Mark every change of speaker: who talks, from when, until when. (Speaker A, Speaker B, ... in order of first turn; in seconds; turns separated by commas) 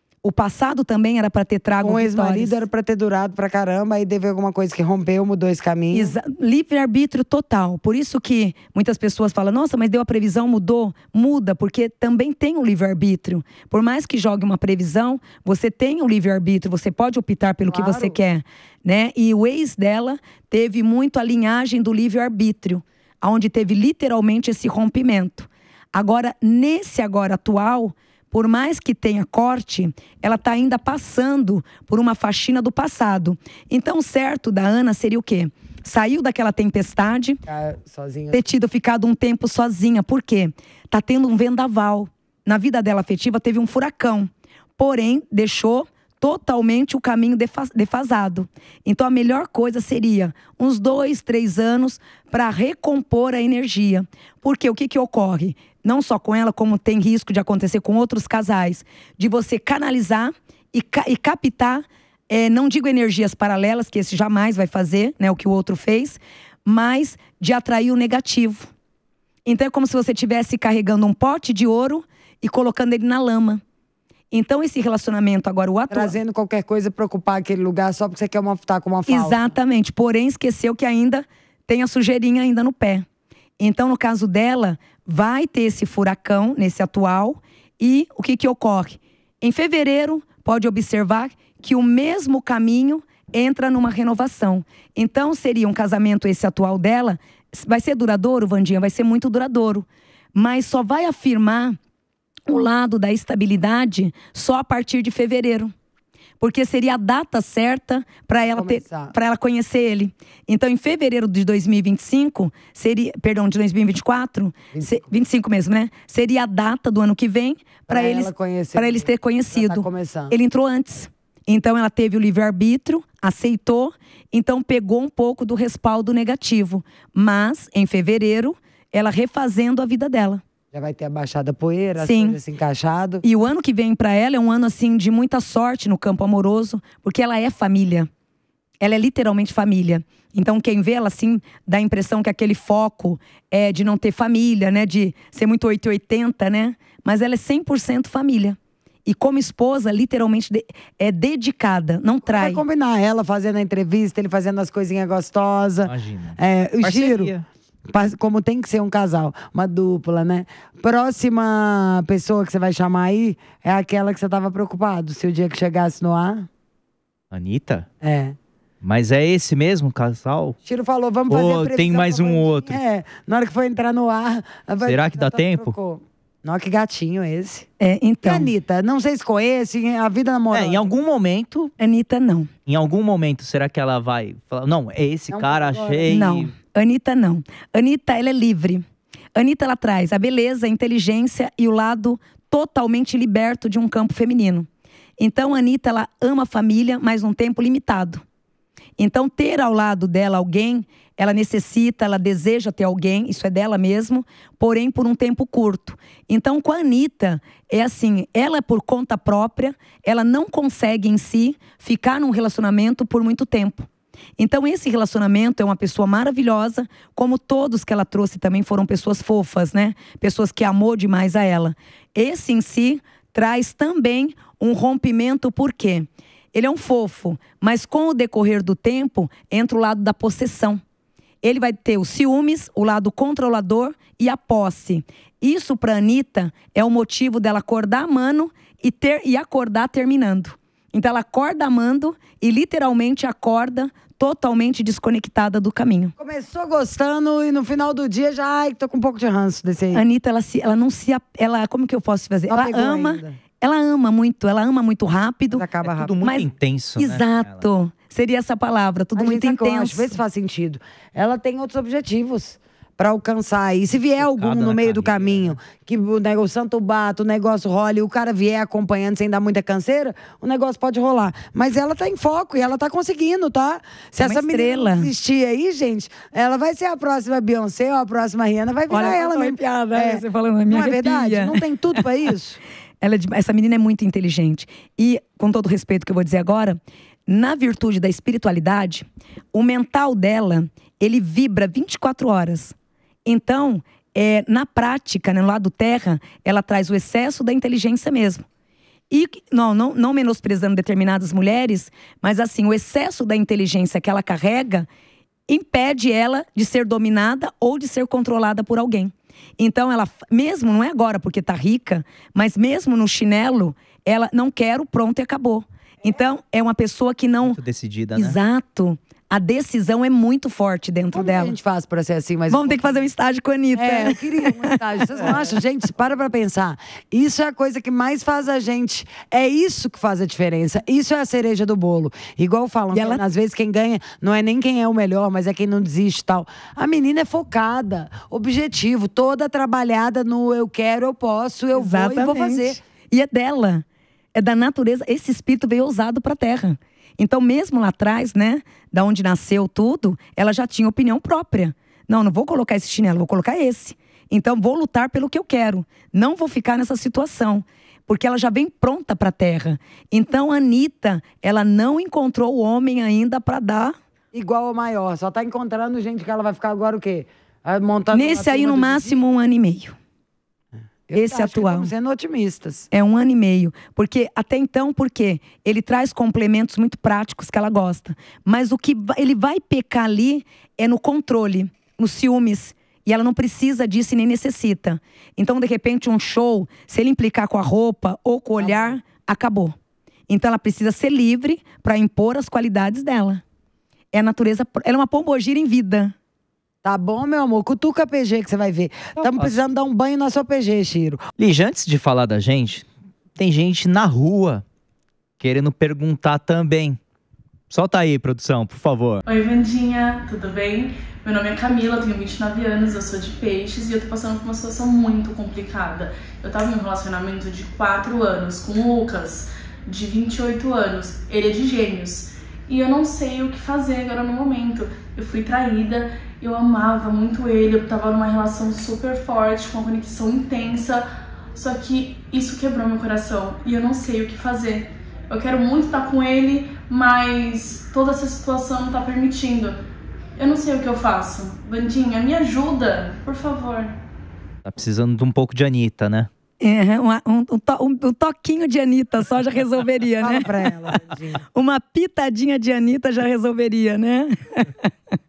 Speaker A: 0.2-2.6, Speaker B: 1.8-6.2, Speaker A: 5.9-37.4, Speaker B: 17.7-18.2, Speaker B: 37.5-38.4, Speaker A: 38.3-68.7, Speaker A: 69.5-73.6, Speaker A: 74.3-76.2, Speaker B: 75.9-79.5, Speaker A: 79.1-83.1, Speaker A: 83.6-101.8, Speaker A: 102.5-105.7, Speaker A: 106.4-130.4, Speaker B: 108.5-109.1, Speaker B: 114.7-115.0, Speaker B: 117.9-120.4, Speaker B: 130.7-133.2, Speaker A: 132.0-132.4, Speaker A: 133.2-138.1, Speaker A: 138.8-152.6, Speaker B: 152.2-157.3, Speaker C: 155.8-157.4, Speaker B: 157.9-166.5, Speaker C: 167.3-167.9, Speaker B: 168.0-168.4, Speaker C: 168.8-170.6, Speaker B: 170.7-177.7, Speaker C: 171.3-172.8, Speaker C: 174.8-175.8, Speaker A: 177.8-178.5, Speaker B: 178.2-180.9, Speaker C: 180.5-181.7, Speaker A: 181.8-182.5, Speaker C: 182.7-186.5, Speaker B: 185.3-186.2, Speaker A: 186.1-188.8, Speaker A: 189.3-194.7, Speaker A: 195.2-198.2, Speaker A: 199.0-230.8, Speaker A: 231.4-246.1, Speaker B: 246.2-250.0, Speaker A: 249.9-255.7, Speaker B: 252.5-253.4, Speaker B: 255.5-256.1, Speaker C: 255.9-257.7, Speaker A: 256.2-260.2, Speaker B: 259.1-282.6, Speaker C: 264.2-265.6, Speaker A: 274.2-275.1, Speaker A: 278.9-281.6, Speaker A: 283.0-292.8, Speaker A: 293.3-298.5, Speaker A: 299.1-304.9, Speaker A: 305.5-317.6, Speaker C: 317.4-318.4, Speaker A: 318.2-321.6, Speaker B: 321.1-323.0, Speaker A: 322.5-324.8, Speaker B: 323.7-342.8, Speaker A: 332.9-333.2, Speaker A: 341.7-343.8, Speaker A: 344.4-364.0, Speaker B: 364.3-369.2, Speaker A: 368.1-370.0, Speaker B: 371.1-372.9, Speaker A: 371.1-371.9, Speaker A: 372.9-389.8, Speaker B: 388.6-389.0, Speaker A: 390.3-393.4, Speaker A: 394.1-396.1, Speaker B: 396.8-401.2, Speaker C: 399.2-399.6, Speaker C: 401.4-402.9, Speaker C: 403.4-404.6, Speaker C: 405.4-407.0, Speaker C: 407.7-409.2, Speaker D: 409.3-439.8, Speaker D: 440.4-443.9, Speaker C: 444.6-446.3, Speaker A: 446.6-450.5, Speaker B: 450.2-451.4, Speaker A: 451.6-454.9